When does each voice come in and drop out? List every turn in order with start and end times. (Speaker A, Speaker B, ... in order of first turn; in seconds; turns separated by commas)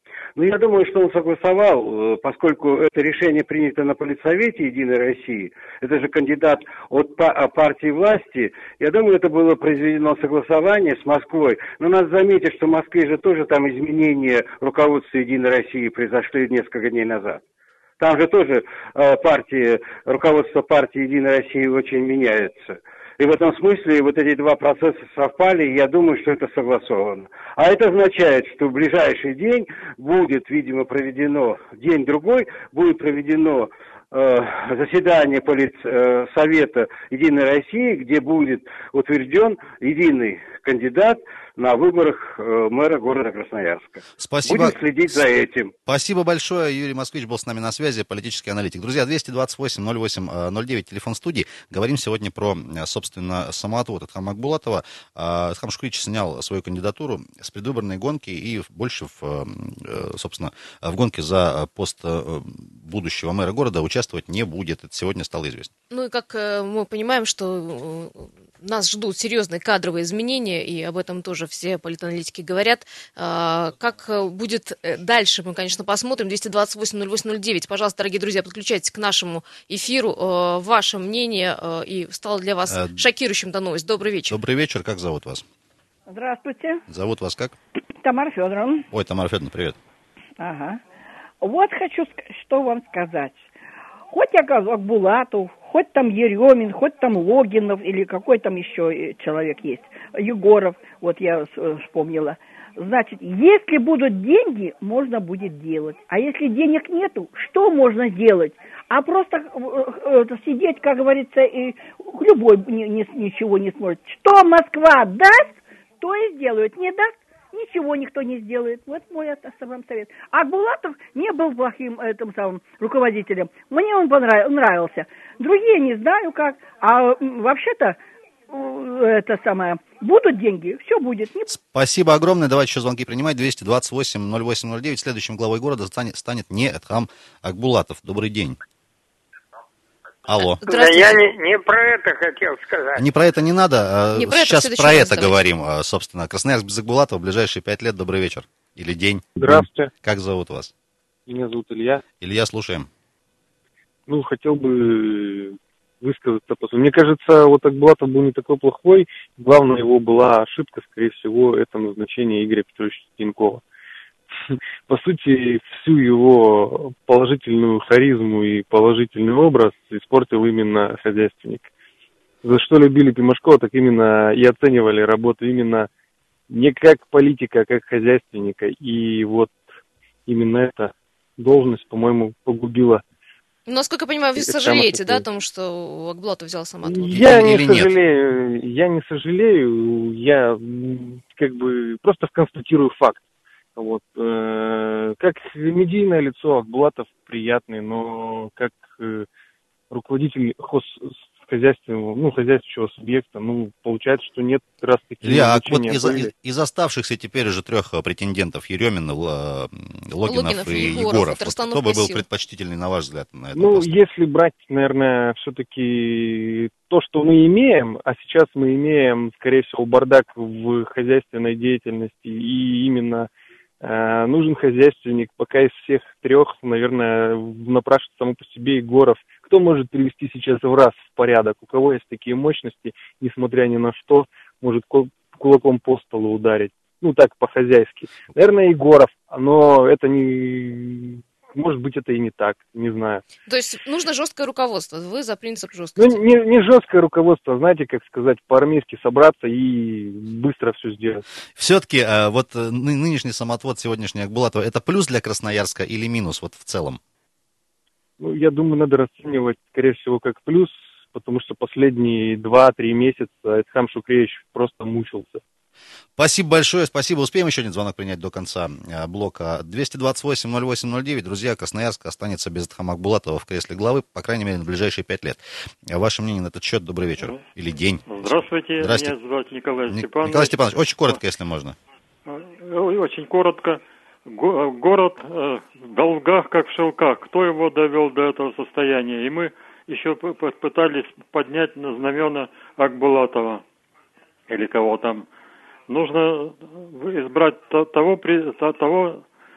Speaker A: 0.4-17.4, Speaker A: 18.0-45.7, Speaker B: 44.2-44.8, Speaker B: 45.9-65.7, Speaker C: 65.9-84.4, Speaker B: 82.7-83.0, Speaker B: 84.3-85.4, Speaker D: 86.1-86.8, Speaker B: 86.9-87.6, Speaker D: 88.0-88.9, Speaker B: 88.9-89.8, Speaker D: 90.4-90.8, Speaker D: 91.4-93.5, Speaker D: 94.1-128.0, Speaker D: 128.5-131.5, Speaker B: 131.5-138.6, Speaker B: 140.3-140.6, Speaker C: 140.6-141.1, Speaker E: 140.6-143.0, Speaker B: 142.9-150.7, Speaker C: 144.1-145.4, Speaker F: 149.4-149.9, Speaker F: 151.3-152.0, Speaker B: 152.2-152.9, Speaker F: 154.1-163.6, Speaker F: 164.5-171.7, Speaker F: 172.4-175.9, Speaker F: 176.5-179.6, Speaker F: 180.3-183.0, Speaker C: 183.7-187.3, Speaker F: 184.4-185.2, Speaker F: 186.8-193.2, Speaker B: 187.1-187.9, Speaker F: 193.8-199.3, Speaker F: 199.9-206.3, Speaker B: 205.2-214.0, Speaker C: 210.3-212.2, Speaker F: 213.5-223.3, Speaker F: 223.8-243.2, Speaker C: 243.5-246.2, Speaker F: 246.0-251.2, Speaker B: 251.6-257.0, Speaker F: 258.2-265.4, Speaker B: 266.2-279.1, Speaker G: 278.1-281.2, Speaker B: 279.9-281.8, Speaker G: 282.3-293.6, Speaker G: 294.5-295.3, Speaker G: 295.9-299.2